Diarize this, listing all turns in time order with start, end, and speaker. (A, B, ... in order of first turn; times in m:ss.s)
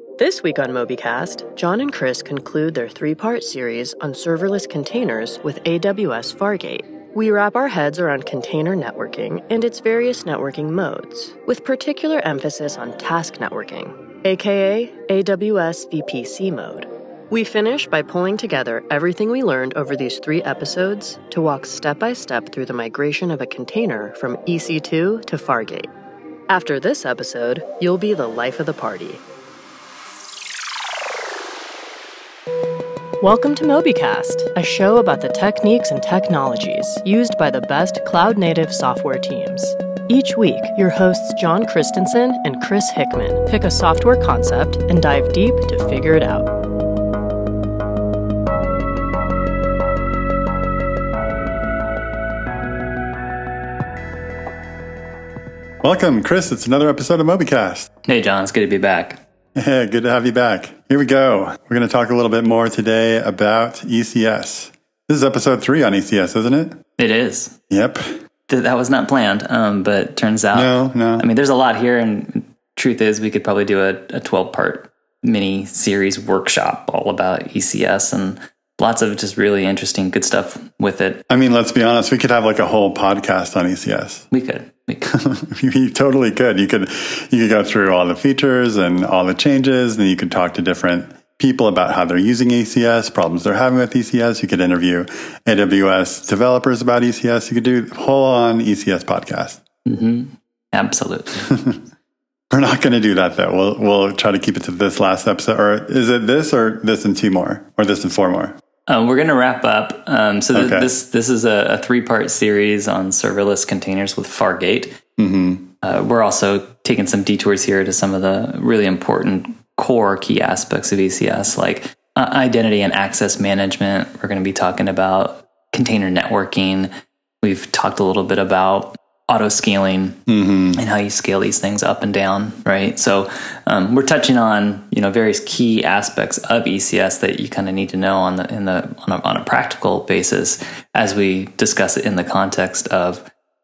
0:00.2-0:25.9 A
0:26.5-0:29.2 A
0:33.2-0:46.5 A
0:55.8-0:57.9 B
0:58.1-0:59.2 C
0:59.5-1:06.8 B
1:07.0-1:07.6 C
1:07.7-1:08.1 B
1:08.5-1:21.2 C
1:10.5-1:11.2 B
1:21.3-1:24.2 B
1:24.3-1:25.2 C
1:25.1-1:39.6 B
1:39.8-1:41.5 C
1:41.5-1:41.8 B
1:42.5-1:48.6 B
1:48.9-1:55.0 C
1:50.5-1:50.9 B
1:55.2-1:55.7 B
1:55.8-2:06.9 C
2:07.4-2:10.2 C
2:10.3-2:10.8 B
2:10.7-2:23.3 C